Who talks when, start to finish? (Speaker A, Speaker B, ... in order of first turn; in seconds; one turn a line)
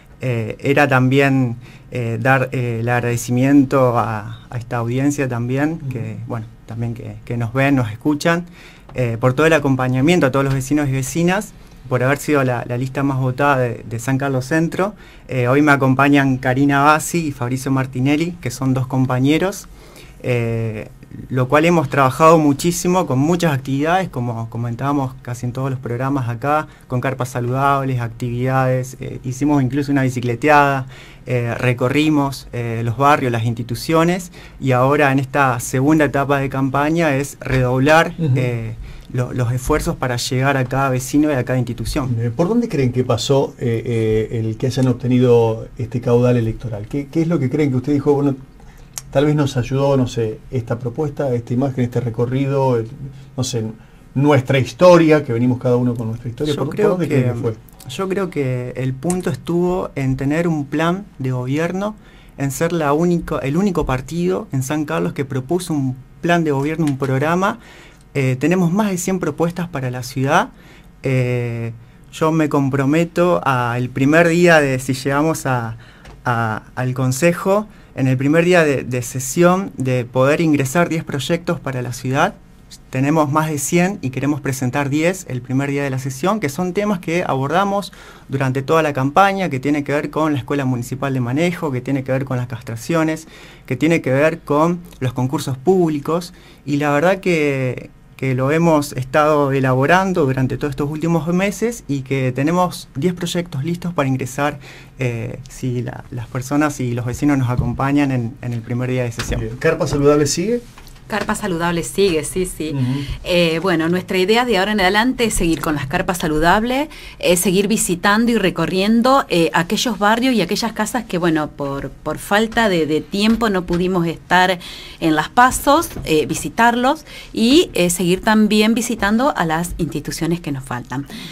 Speaker A: 0.2-19.7
Speaker A: 20.2-42.1
Speaker B: 38.2-38.5
Speaker B: 42.0-48.4
Speaker B: 49.1-57.6
Speaker A: 56.5-67.6
Speaker A: 68.1-70.5
Speaker A: 71.0-82.3
Speaker A: 82.9-109.5
Speaker B: 109.3-110.6
Speaker C: 111.1-131.0
Speaker B: 112.7-113.1